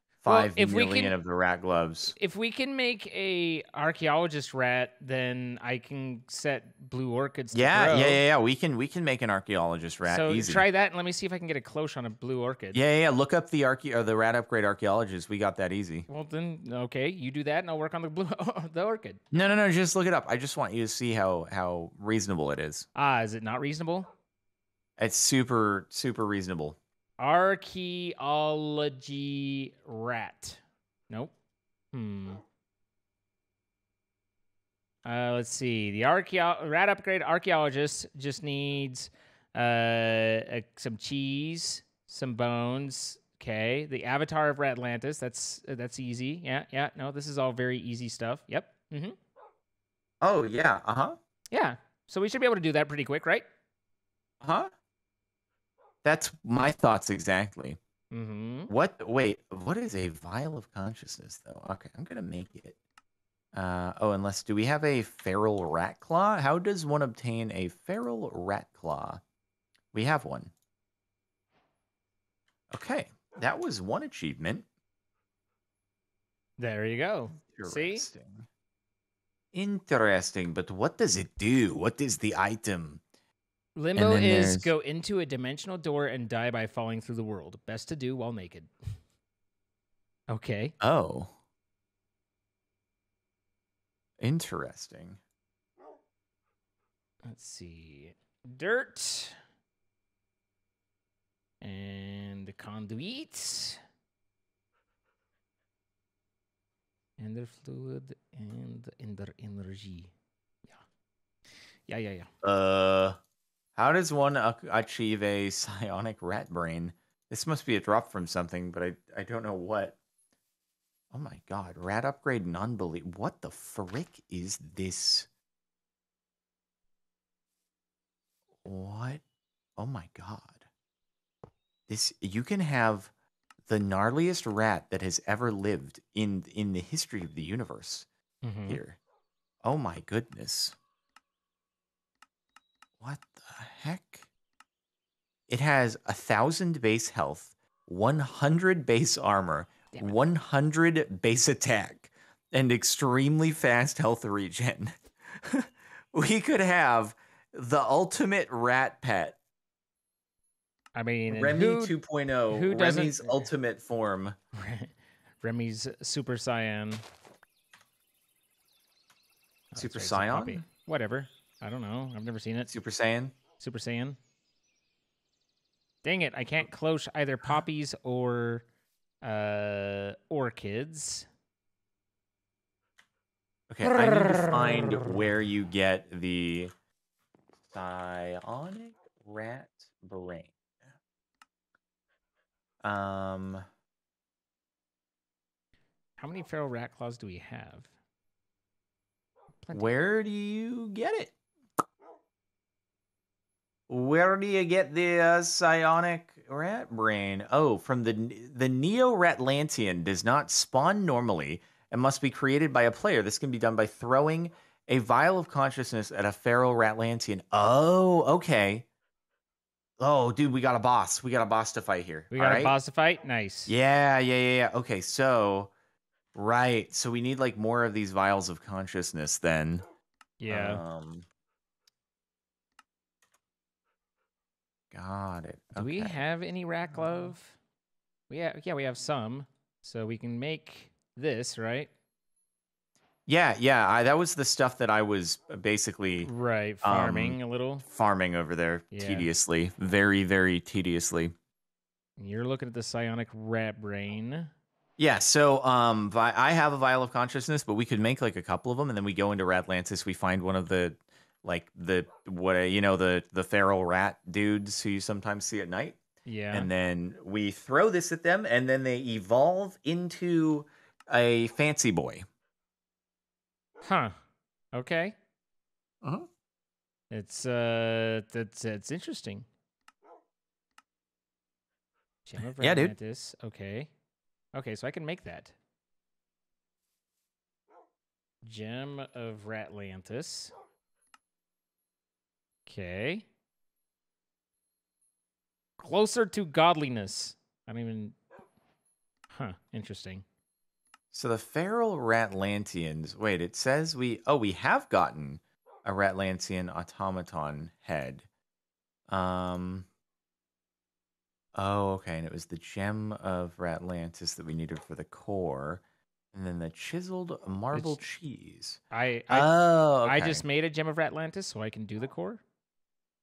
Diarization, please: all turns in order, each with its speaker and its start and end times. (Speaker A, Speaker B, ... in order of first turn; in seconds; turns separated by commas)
Speaker A: 0.2-2.1, Speaker B: 0.2-1.1, Speaker B: 2.1-8.2, Speaker A: 7.5-10.7, Speaker B: 10.0-12.8, Speaker A: 12.7-16.1, Speaker B: 16.1-19.2, Speaker A: 19.3-22.9, Speaker B: 22.9-24.1, Speaker A: 25.0-26.8, Speaker B: 27.2-31.3, Speaker B: 31.9-32.4, Speaker B: 35.0-49.1, Speaker A: 50.2-51.2, Speaker B: 51.5-53.5, Speaker A: 54.4-54.7, Speaker A: 56.0-57.8, Speaker B: 58.1-58.7, Speaker A: 58.7-62.8, Speaker A: 63.5-69.2, Speaker A: 69.9-70.5, Speaker A: 72.7-74.7, Speaker B: 76.6-78.1, Speaker A: 77.4-78.5, Speaker A: 79.5-83.0, Speaker B: 83.8-88.7, Speaker A: 84.0-84.7, Speaker B: 90.3-90.7, Speaker A: 90.8-91.3, Speaker A: 94.2-95.2, Speaker B: 97.2-99.4, Speaker B: 101.6-103.8, Speaker B: 107.2-110.1, Speaker B: 111.9-112.3, Speaker A: 112.4-113.2, Speaker A: 113.8-120.0, Speaker A: 121.1-125.3, Speaker A: 128.6-129.2, Speaker A: 129.8-130.6, Speaker A: 131.9-133.1, Speaker A: 133.7-138.1, Speaker B: 138.4-138.8, Speaker A: 138.7-139.0, Speaker A: 139.6-140.8, Speaker A: 143.0-144.2, Speaker A: 145.5-159.4, Speaker B: 160.9-161.9, Speaker A: 161.3-164.3, Speaker B: 162.5-163.5, Speaker B: 164.5-167.0, Speaker B: 169.7-172.7, Speaker A: 169.8-170.6, Speaker A: 172.7-173.3, Speaker B: 173.6-174.2, Speaker B: 176.0-178.6, Speaker B: 179.2-181.3, Speaker A: 183.7-186.7, Speaker B: 183.8-185.2, Speaker A: 187.7-190.5, Speaker A: 192.8-193.6, Speaker B: 196.2-197.9, Speaker B: 199.6-199.9, Speaker A: 199.7-201.3, Speaker A: 203.9-218.8, Speaker A: 220.0-222.7, Speaker B: 222.3-223.7, Speaker A: 223.7-225.7, Speaker A: 226.3-229.8, Speaker B: 230.4-230.8, Speaker A: 230.5-231.2, Speaker A: 234.9-236.2, Speaker B: 235.8-237.6, Speaker B: 238.3-241.9, Speaker A: 243.3-246.3, Speaker B: 246.2-247.8, Speaker A: 246.8-251.3, Speaker B: 248.9-249.3, Speaker B: 252.2-254.5, Speaker A: 255.0-266.0, Speaker B: 266.2-266.7, Speaker A: 266.5-272.2, Speaker B: 273.8-274.1, Speaker B: 274.7-275.1, Speaker A: 276.0-276.3, Speaker B: 277.1-279.5, Speaker B: 282.2-283.9, Speaker A: 282.6-282.9, Speaker B: 284.5-285.5, Speaker B: 288.4-290.5, Speaker B: 292.6-293.3, Speaker B: 295.8-298.1, Speaker B: 299.3-300.2, Speaker A: 301.1-308.2, Speaker A: 309.1-309.9, Speaker A: 311.5-315.8, Speaker A: 316.3-320.4, Speaker B: 317.7-318.0, Speaker B: 318.9-322.4